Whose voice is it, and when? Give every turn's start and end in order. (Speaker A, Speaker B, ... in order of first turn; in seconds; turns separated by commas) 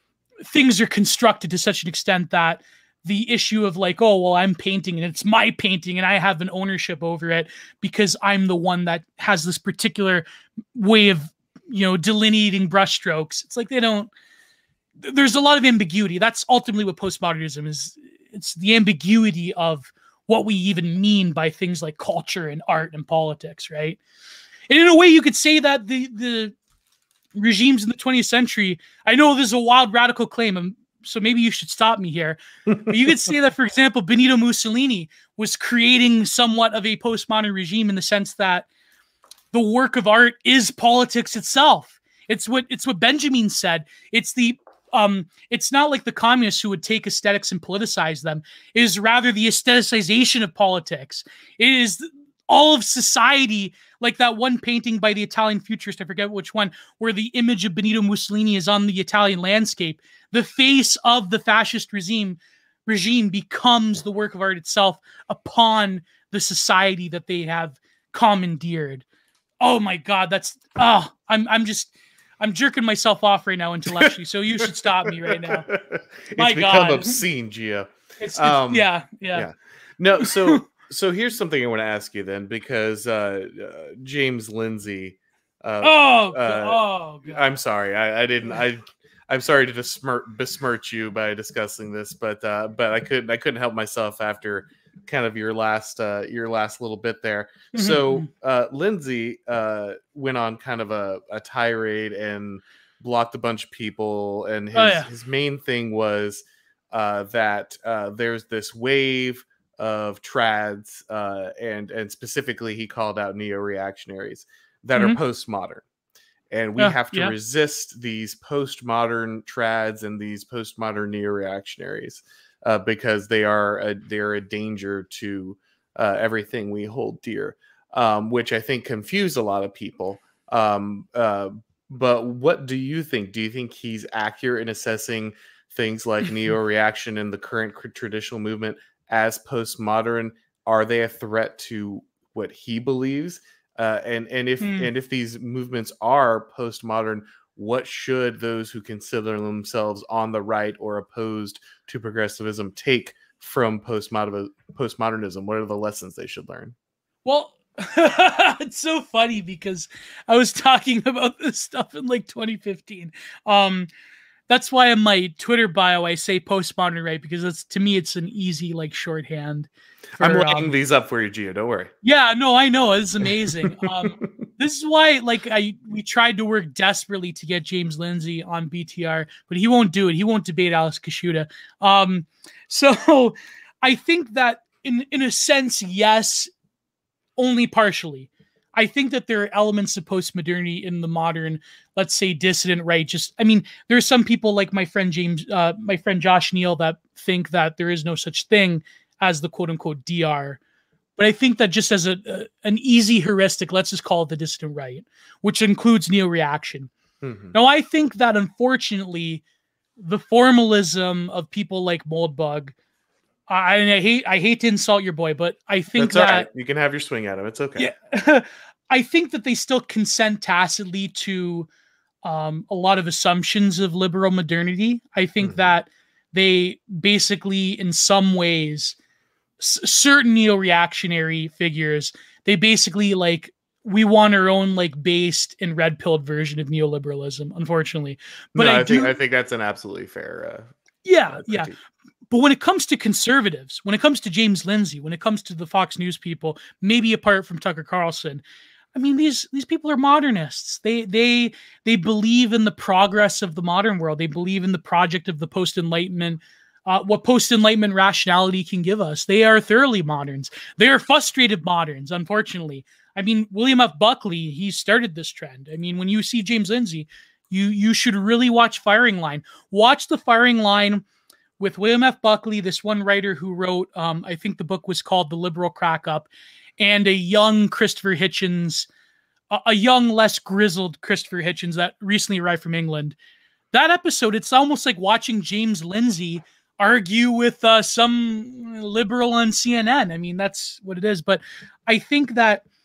Speaker A: 0.4-14.1, Speaker A: 15.0-24.0, Speaker A: 24.7-26.5, Speaker A: 27.3-38.7, Speaker A: 39.5-69.0, Speaker A: 69.6-75.7, Speaker B: 74.0-115.8, Speaker A: 76.3-77.2, Speaker A: 78.2-79.5, Speaker A: 80.2-80.6, Speaker A: 85.8-87.4, Speaker A: 97.7-98.3, Speaker A: 104.7-105.1, Speaker B: 116.5-156.7, Speaker A: 116.8-117.3, Speaker A: 144.6-144.9, Speaker A: 157.2-163.9, Speaker A: 164.5-169.7, Speaker B: 170.2-171.9, Speaker A: 170.2-170.7, Speaker A: 172.0-186.5, Speaker B: 173.2-174.3, Speaker A: 187.4-200.6, Speaker A: 201.2-206.9, Speaker B: 207.2-207.5, Speaker A: 207.5-209.4, Speaker A: 210.0-212.7, Speaker A: 213.5-216.5, Speaker B: 216.0-217.9, Speaker A: 217.8-221.7, Speaker A: 222.2-229.0, Speaker B: 225.4-225.7, Speaker A: 229.6-239.1, Speaker B: 238.5-240.7, Speaker A: 241.0-241.7, Speaker B: 241.3-241.7, Speaker A: 242.3-248.4, Speaker A: 248.9-271.0, Speaker A: 271.6-278.9, Speaker A: 279.5-283.1, Speaker A: 283.7-292.6